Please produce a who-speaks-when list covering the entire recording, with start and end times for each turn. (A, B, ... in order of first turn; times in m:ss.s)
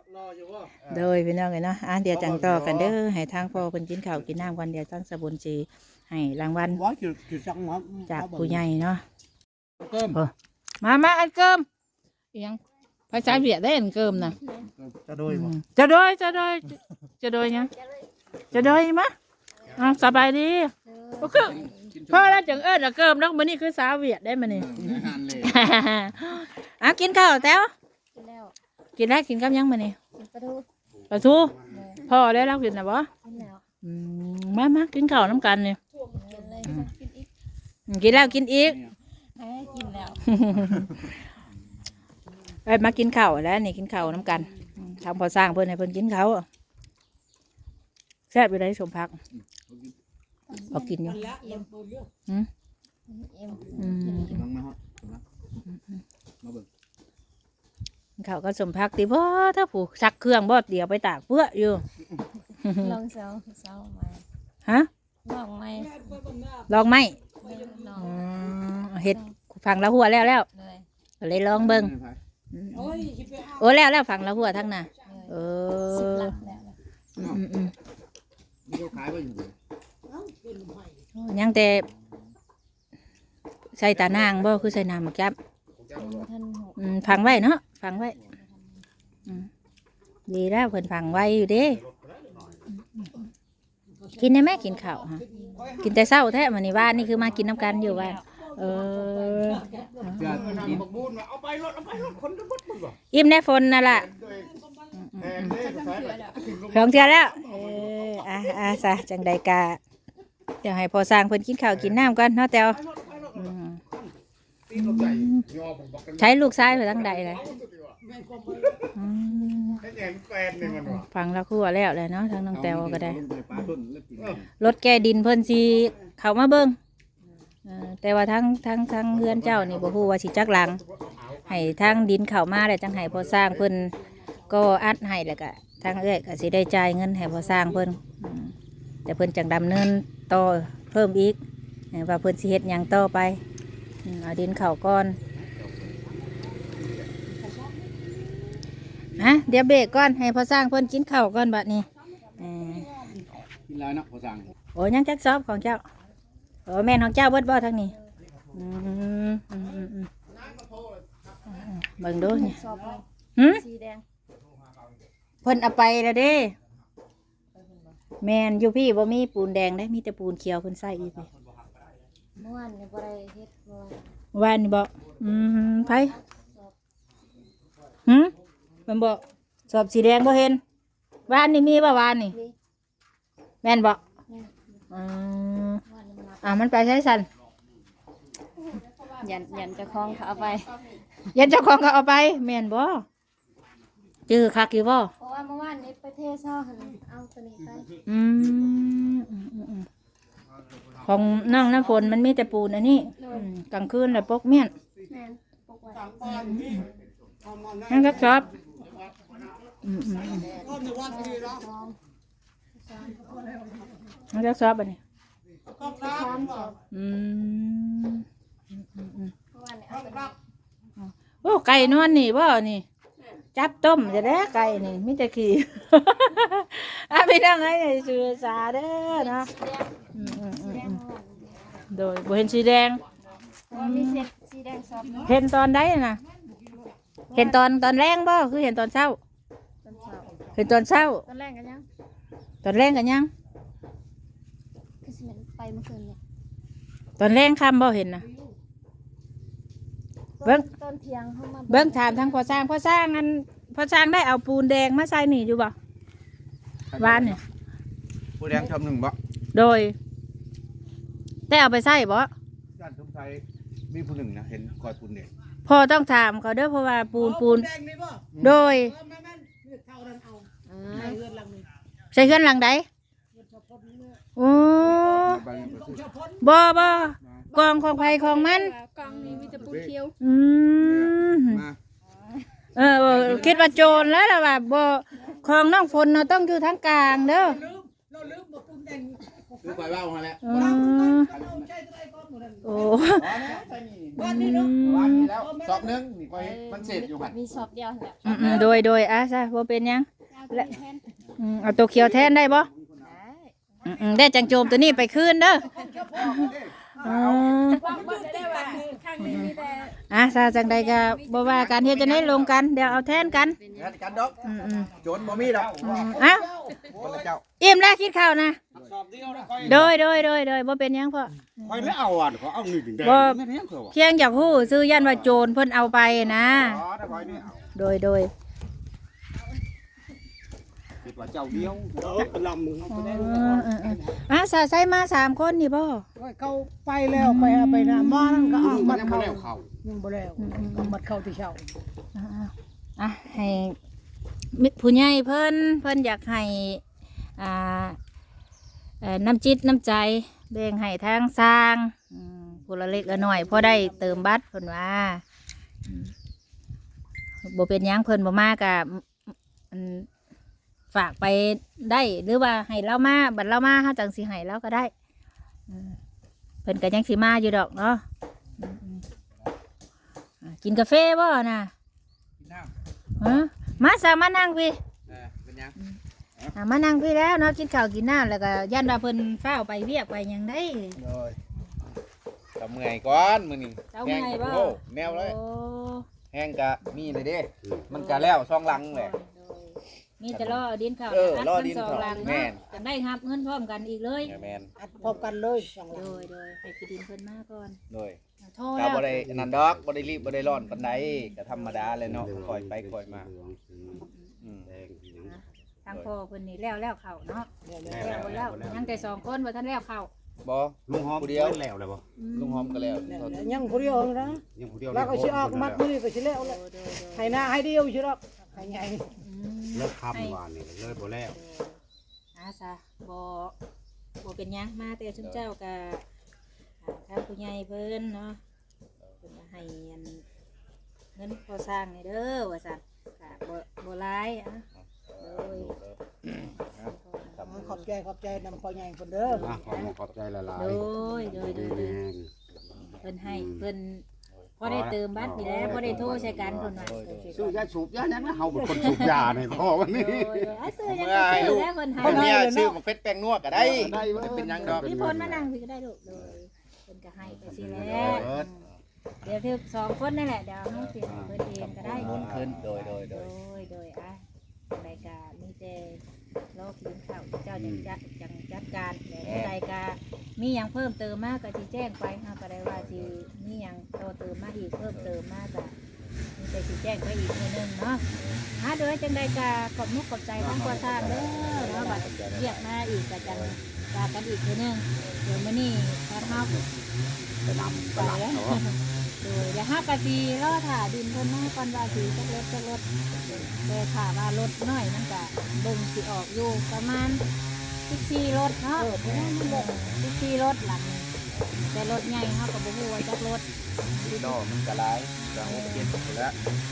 0:00.6-0:01.0 A
0:00.9-0:06.8 B
0:06.7-0:08.6 C
0:08.1-0:09.0 B
0:09.8-0:10.2 C
0:10.1-0:11.6 B
0:12.3-0:14.3 B
0:13.2-0:13.5 D
0:14.1-0:15.3 D
0:14.3-0:14.7 E
0:15.3-0:17.7 B
0:17.4-0:18.1 E
0:18.5-0:19.1 B
0:19.6-0:20.2 E
0:19.7-0:27.7 B
0:20.8-0:21.9 E
0:21.4-0:22.6 D
0:24.5-0:25.7 D
0:28.1-0:28.5 E
0:29.0-0:30.0 B
0:30.1-0:30.6 E
0:31.0-0:31.9 A
0:31.1-0:33.1 B
0:31.6-0:32.1 E
0:33.2-0:33.6 E
0:33.8-0:35.8 B
0:36.0-0:37.3 E
0:36.3-0:36.6 C
0:36.6-0:36.9 B
0:37.9-0:38.8 B
0:38.1-0:38.4 E
0:38.6-0:38.9 D
0:39.4-0:40.3 E
0:40.2-0:41.2 B
0:40.6-0:41.0 D
0:42.6-0:46.4 B
0:44.0-0:44.7 E
0:48.3-0:49.2 B
0:49.3-0:49.9 D
0:50.5-0:51.7 E
0:50.7-0:51.3 B
0:51.0-0:52.1 C
0:53.1-0:54.5 E
0:53.8-0:54.4 B
0:54.0-0:55.2 D
0:55.7-0:56.0 B
0:56.4-0:56.7 D
0:58.2-1:01.8 B
1:02.6-1:03.0 B
1:02.8-1:04.2 E
1:05.2-1:06.2 E
1:05.7-1:08.1 C
1:06.7-1:07.2 B
1:07.4-1:08.3 E
1:07.9-1:10.5 B
1:09.0-1:09.4 E
1:10.5-1:10.8 E
1:11.2-1:11.9 B
1:11.5-1:12.2 D
1:12.5-1:16.4 B
1:12.7-1:13.8 C
1:14.3-1:15.2 C
1:15.0-1:15.4 E
1:15.9-1:16.8 E
1:17.2-1:17.7 B
1:18.6-1:19.5 D
1:20.1-1:21.0 C
1:21.1-1:21.8 B
1:23.8-1:25.4 B
1:24.0-1:24.6 A
1:25.7-1:26.2 A
1:26.0-1:27.4 E
1:26.8-1:28.2 B
1:28.2-1:28.5 E
1:30.3-1:31.8 B
1:31.5-1:32.6 A
1:32.7-1:33.3 B
1:34.0-1:35.7 C
1:34.2-1:35.2 B
1:35.3-1:35.8 E
1:35.6-1:36.4 A
1:35.8-1:40.8 B
1:37.2-1:38.3 E
1:37.6-1:40.3 C
1:40.2-1:40.8 D
1:40.2-1:43.0 A
1:43.1-1:44.1 B
1:44.1-1:44.5 A
1:44.2-1:45.0 C
1:45.0-1:45.5 B
1:45.2-1:48.2 A
1:45.4-1:46.6 E
1:46.7-1:49.8 B
1:50.6-1:52.8 B
1:53.3-1:53.8 B
1:54.7-1:58.0 A
1:54.7-1:55.4 B
1:56.2-1:57.4 B
1:58.0-1:58.9 C
1:58.9-1:59.8 B
1:59.2-1:59.9 E
1:59.8-2:01.0 A
2:00.6-2:03.7 B
2:02.5-2:04.5 D
2:04.6-2:06.8 B
2:07.6-2:10.8 B
2:09.1-2:10.1 A
2:10.7-2:12.0 A
2:11.5-2:13.9 B
2:13.2-2:13.6 A
2:14.5-2:18.5 B
2:17.4-2:17.8 E
2:19.0-2:21.4 B
2:21.9-2:23.4 B
2:24.0-2:25.2 B
2:25.4-2:26.3 A
2:27.4-2:28.1 C
2:29.2-2:31.9 B
2:32.4-2:32.9 B
2:32.4-2:33.2 C
2:33.7-2:34.5 D
2:34.7-2:35.8 B
2:36.6-2:37.9 B
2:38.5-2:40.1 B
2:40.3-2:41.2 A
2:41.5-2:42.6 B
2:42.2-2:44.0 E
2:42.6-2:43.0 C
2:43.4-2:43.6 B
2:45.4-2:46.5 B
2:47.5-2:48.0 E
2:48.2-2:51.3 B
2:51.5-2:51.8 A
2:52.4-2:54.1 E
2:54.3-2:56.1 B
2:55.8-2:56.7 E
2:58.0-2:58.3 B
2:58.9-3:00.6 B
3:01.3-3:01.8 E
3:01.3-3:02.3 B
3:03.6-3:04.0 B
3:04.3-3:04.6 E
3:04.9-3:05.8 B
3:05.8-3:06.7 E
3:06.4-3:07.3 B
3:08.6-3:10.9 E
3:11.3-3:13.0 B
3:14.3-3:15.1 B
3:15.2-3:17.9 E
3:18.1-3:19.9 B
3:21.0-3:24.7 B
3:23.2-3:23.5 E
3:25.1-3:26.8 E
3:25.9-3:26.9 C
3:26.2-3:26.8 B
3:27.4-3:28.5 C
3:27.9-3:28.5 B
3:28.8-3:29.4 A
3:29.8-3:30.5 B
3:30.0-3:32.0 E
3:30.5-3:31.6 C
3:32.9-3:33.1 E
3:33.0-3:33.9 C
3:34.3-3:35.0 B
3:35.6-3:36.7 C
3:35.8-3:36.8 E
3:36.9-3:39.3 B
3:39.5-3:40.4 E
3:39.9-3:40.3 C
3:41.0-3:42.8 B
3:41.8-3:42.3 E
3:43.6-3:49.5 B
3:44.0-3:45.0 E
3:49.1-3:51.8 E
3:50.1-3:51.0 B
3:51.9-3:53.0 B
3:53.7-3:55.4 E
3:53.7-3:54.2 B
3:55.2-3:56.2 B
3:56.3-3:57.0 C
3:57.3-3:57.6 E
3:57.3-3:59.2 B
3:59.8-4:00.4 E
4:00.3-4:00.7 C
4:00.5-4:01.2 B
4:00.9-4:01.8 E
4:02.6-4:03.3 B
4:05.0-4:06.2 E
4:07.2-4:08.2 B
4:10.4-4:12.6 E
4:11.7-4:15.7 B
4:16.9-4:17.4 D
4:17.0-4:17.4 B
4:18.4-4:19.2 D
4:19.5-4:20.0 B
4:21.5-4:22.3 B
4:22.8-4:25.3 D
4:25.7-4:27.7 B
4:27.1-4:31.7 C
4:28.4-4:28.9 B
4:30.7-4:31.2 B
4:32.1-4:32.8 B
4:33.3-4:34.2 C
4:34.4-4:35.4 B
4:34.7-4:36.6 C
4:34.8-4:36.0 D
4:36.4-4:38.7 B
4:37.2-4:37.5 D
4:37.5-4:40.1 E
4:39.2-4:39.9 D
4:40.2-4:41.6 B
4:40.8-4:41.8 D
4:42.8-4:47.6 B
4:43.0-4:43.9 D
4:43.4-4:44.0 E
4:47.1-4:56.0 C
4:49.6-4:51.7 D
4:50.4-4:51.3 B
4:52.6-4:53.4 B
4:53.0-4:57.4 D
4:54.2-4:55.3 B
4:56.3-4:58.9 E
4:58.2-4:58.8 D
4:58.2-5:00.7 B
5:00.3-5:01.1 E
5:01.4-5:02.7 B
5:01.5-5:03.1 D
5:03.0-5:03.5 E
5:03.8-5:05.7 B
5:03.9-5:04.6 C
5:04.6-5:05.0 E
5:05.5-5:09.0 C
5:05.8-5:06.3 E
5:06.2-5:07.4 D
5:07.0-5:07.9 B
5:07.7-5:12.5 E
5:09.2-5:09.5 B
5:10.1-5:13.6 B
5:11.8-5:12.4 D
5:13.6-5:14.0 E
5:13.7-5:14.4 D
5:14.0-5:17.3 C
5:14.4-5:14.9 B
5:15.0-5:16.1 D
5:15.4-5:16.0 A
5:15.8-5:16.5 B
5:16.9-5:17.4 D
5:17.6-5:18.6 B
5:18.7-5:19.9 C
5:18.8-5:19.9 D
5:19.6-5:21.9 B
5:21.6-5:23.4 A
5:23.0-5:23.4 B
5:23.0-5:25.4 D
5:23.9-5:26.8 B
5:26.1-5:27.6 D
5:27.7-5:28.3 B
5:31.0-5:31.9 A
5:31.9-5:34.1 C
5:32.9-5:36.0 B
5:36.2-5:41.6 C
5:37.1-5:38.9 B
5:38.6-5:39.7 A
5:40.4-5:41.0 B
5:42.1-5:43.8 B
5:44.5-5:46.8 B
5:47.4-5:48.0 B
5:49.0-5:55.2 B
5:55.9-5:56.1 B
5:57.4-6:00.1 B
6:00.9-6:04.9 B
6:05.7-6:06.0 B
6:06.6-6:08.0 B
6:08.6-6:09.0 B
6:10.4-6:11.7 B
6:12.4-6:12.7 D
6:13.2-6:14.8 B
6:15.1-6:15.8 D
6:16.5-6:21.0 B
6:21.0-6:21.4 D
6:22.6-6:25.4 D
6:23.9-6:26.1 B
6:26.3-6:29.1 D
6:26.8-6:27.1 B
6:27.9-6:34.4 B
6:30.3-6:32.6 D
6:34.2-6:34.7 D
6:34.8-6:36.3 C
6:35.9-6:37.8 B
6:37.9-6:38.2 D
6:38.4-6:39.2 B
6:38.8-6:43.3 D
6:39.1-6:40.3 A
6:40.4-6:41.4 B
6:42.0-6:44.1 A
6:44.4-6:44.7 D
6:44.6-6:45.4 A
6:45.2-6:50.1 B
6:47.6-6:48.4 C
6:47.8-6:49.2 A
6:50.4-6:51.6 D
6:50.9-6:52.0 A
6:52.2-6:54.1 B
6:52.3-6:53.5 D
6:53.0-6:59.1 C
6:54.5-6:55.8 A
6:56.3-6:57.5 B
6:59.2-7:00.4 B
6:59.7-7:01.4 A
7:01.3-7:01.8 B
7:02.3-7:03.5 B
7:04.2-7:06.0 B
7:05.2-7:05.4 D
7:06.8-7:08.4 B
7:09.2-7:10.2 B
7:11.2-7:14.6 B
7:15.1-7:17.8 D
7:15.2-7:15.7 B
7:16.8-7:17.8 B
7:17.4-7:19.6 C
7:19.3-7:22.3 A
7:20.5-7:22.0 B
7:23.0-7:24.0 B
7:23.2-7:23.6 A
7:24.6-7:27.6 B
7:24.6-7:26.6 A
7:25.3-7:27.6 D
7:27.3-7:30.5 A
7:28.2-7:29.2 C
7:28.7-7:32.4 B
7:30.6-7:35.4 D
7:32.0-7:32.3 A
7:32.1-7:32.8 C
7:33.5-7:35.4 A
7:34.1-7:38.6 B
7:37.4-7:38.4 D
7:37.8-7:38.4 A
7:39.2-7:46.0 B
7:41.0-7:41.3 A
7:41.6-7:43.3 D
7:41.8-7:42.8 A
7:46.5-7:55.7 B
7:47.6-7:47.9 A
7:49.2-7:49.5 D
7:54.9-7:55.1 D
7:56.4-7:58.0 B
7:58.6-8:06.6 B
8:00.4-8:02.6 A
8:03.2-8:03.6 A
8:06.3-8:06.8 A
8:07.4-8:08.6 A
8:07.9-8:17.2 B
8:17.9-8:21.1 B
8:18.8-8:19.7 C
8:21.7-8:24.4 B
8:24.0-8:26.4 D
8:25.2-8:25.9 B